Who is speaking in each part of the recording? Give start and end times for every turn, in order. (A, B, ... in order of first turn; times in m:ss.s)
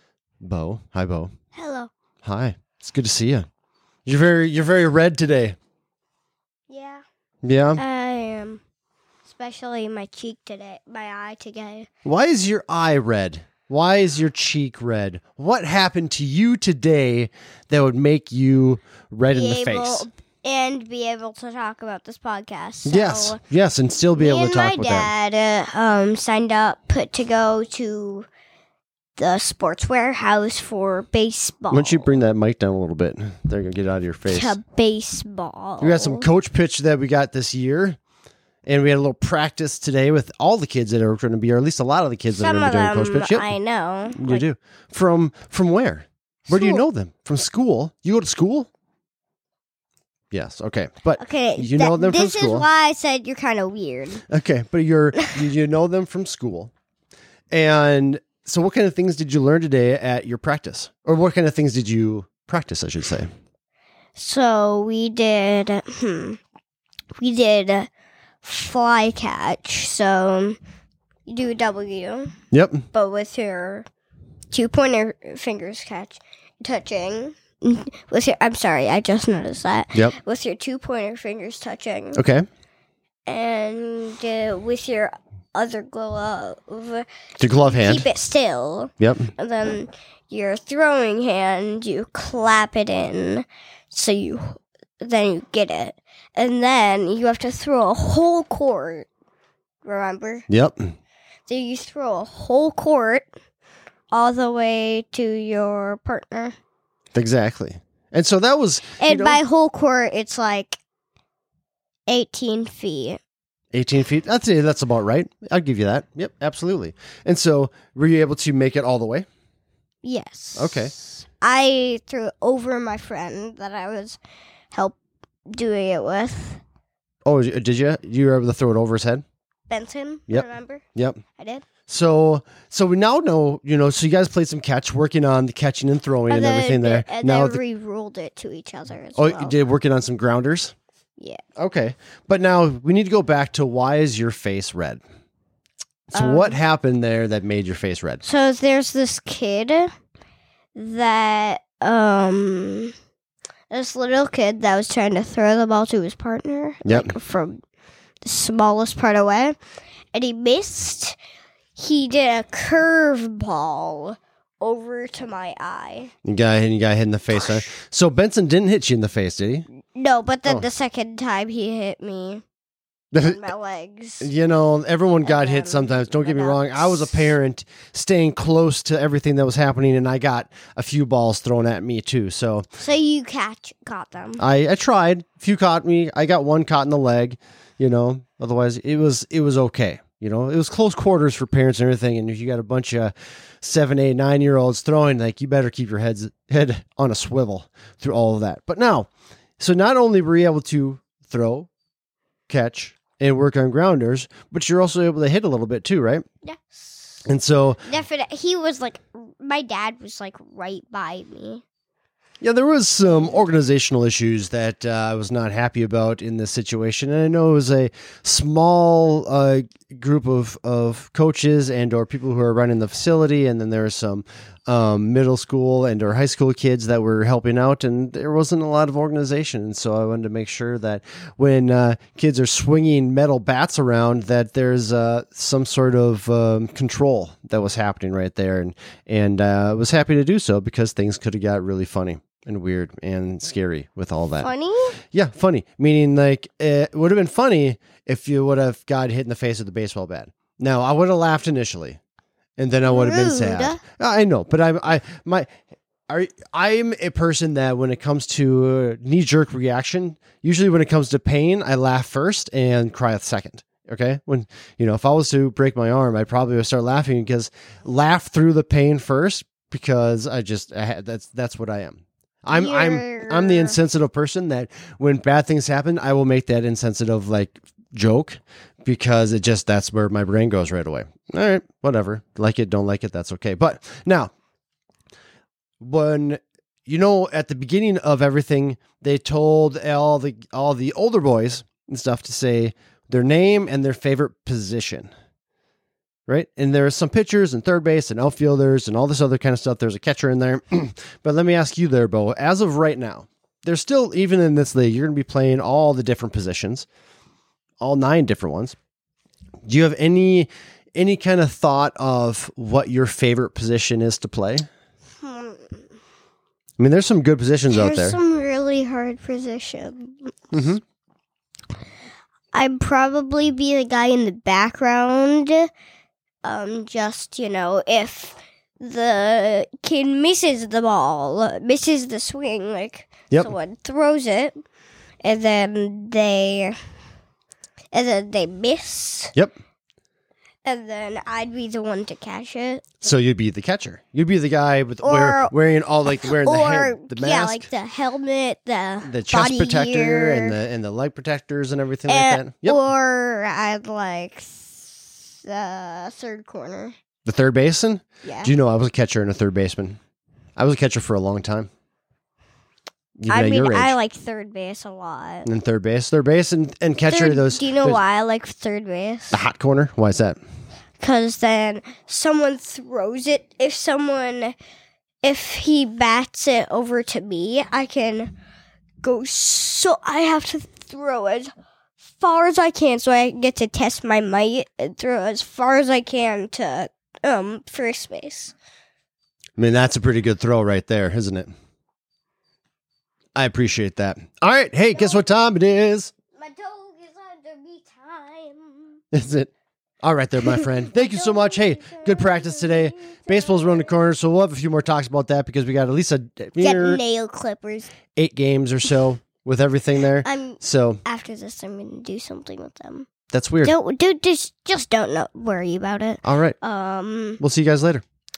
0:00.4-0:01.3 A
0:01.5-0:01.9 B
0:02.2-0:03.5 A
0:04.0-0:05.6 A
0:06.7-0:07.0 B
0:07.4-0:07.8 A
0:07.8-0:08.6 B
0:09.2-0:11.9 B
0:12.0-0:20.1 A
0:19.3-0:23.4 B
0:22.8-0:25.1 A
0:24.2-0:28.3 B
0:29.2-0:32.2 B
0:31.7-0:34.6 A
0:34.3-0:36.3 B
0:35.8-0:38.0 A
0:38.7-0:43.5 A
0:42.3-0:44.4 B
0:44.1-0:48.7 A
0:46.5-0:46.9 B
0:50.3-0:52.7 A
0:51.2-0:54.2 B
0:54.3-0:56.7 A
0:57.5-1:03.3 A
1:04.2-1:06.4 B
1:07.2-1:07.9 B
1:08.4-1:10.6 B
1:11.3-1:12.3 B
1:12.5-1:12.8 A
1:12.9-1:13.9 B
1:14.5-1:22.2 B
1:22.1-1:22.4 A
1:23.3-1:39.1 B
1:27.4-1:28.1 A
1:29.0-1:29.3 A
1:39.8-1:40.4 B
1:40.5-1:40.9 A
1:41.5-1:43.3 B
1:44.1-1:46.6 B
1:47.1-1:49.4 A
1:49.0-1:50.8 B
1:52.1-1:53.2 B
1:53.7-1:59.3 A
2:00.0-2:04.2 B
2:00.6-2:00.9 A
2:04.7-2:05.0 B
2:05.5-2:06.6 B
2:07.2-2:09.2 A
2:09.7-2:10.8 B
2:10.3-2:11.2 A
2:11.4-2:11.6 B
2:11.9-2:17.6 A
2:16.3-2:19.6 B
2:19.2-2:20.7 A
2:21.6-2:25.0 A
2:26.1-2:26.6 B
2:26.1-2:28.2 A
2:28.2-2:29.9 B
2:30.8-2:32.9 B
2:33.7-2:37.6 B
2:36.8-2:37.2 A
2:38.2-2:39.6 B
2:40.1-2:41.2 B
2:41.8-2:46.1 B
2:46.2-2:49.7 A
2:49.9-2:52.4 B
2:53.1-2:53.4 A
2:53.2-2:54.3 B
2:54.2-3:02.7 A
2:55.2-2:57.2 B
3:02.8-3:04.4 B
3:04.4-3:21.7 A
3:22.5-3:26.2 A
3:26.4-3:27.0 B
3:27.2-3:27.8 A
3:27.8-3:31.6 B
3:32.4-4:04.5 A
4:04.4-4:05.0 B
4:05.1-4:12.0 A
4:12.6-4:15.5 A
4:12.8-4:13.8 B
4:16.1-4:44.3 A
4:32.5-4:33.8 B
4:45.8-4:55.1 A
4:56.3-5:06.9 A
5:07.8-5:08.8 A
5:09.7-5:14.7 A
5:15.2-5:15.8 B
5:16.8-5:18.2 A
5:17.7-5:20.4 B
5:20.5-5:20.8 A
5:22.5-5:25.7 B
5:26.4-5:34.6 B
5:35.2-5:36.8 B
5:37.9-5:39.3 B
5:40.6-5:42.8 B
5:43.0-5:47.7 A
5:45.0-5:45.5 B
5:46.2-5:50.6 B
5:49.0-5:52.8 A
5:52.1-5:57.0 B
5:57.2-6:00.0 A
5:58.2-5:58.5 B
6:00.6-6:01.7 A
6:03.2-6:04.0 A
6:03.3-6:05.5 B
6:05.4-6:08.0 A
6:07.1-6:09.4 B
6:09.3-6:10.4 A
6:11.0-6:14.6 B
6:15.2-6:18.3 B
6:19.0-6:21.5 B
6:22.1-6:28.6 B
6:29.6-6:31.5 A
6:33.4-6:36.1 A
6:34.9-6:35.2 B
6:36.4-6:39.0 B
6:39.1-6:39.5 A
6:40.0-6:47.0 A
6:40.6-6:44.0 B
6:46.6-6:47.9 B
6:48.2-6:51.0 A
6:50.2-6:53.1 B
6:53.3-6:53.7 A
6:53.6-6:57.4 B
6:56.2-6:56.6 A
6:57.4-6:58.0 A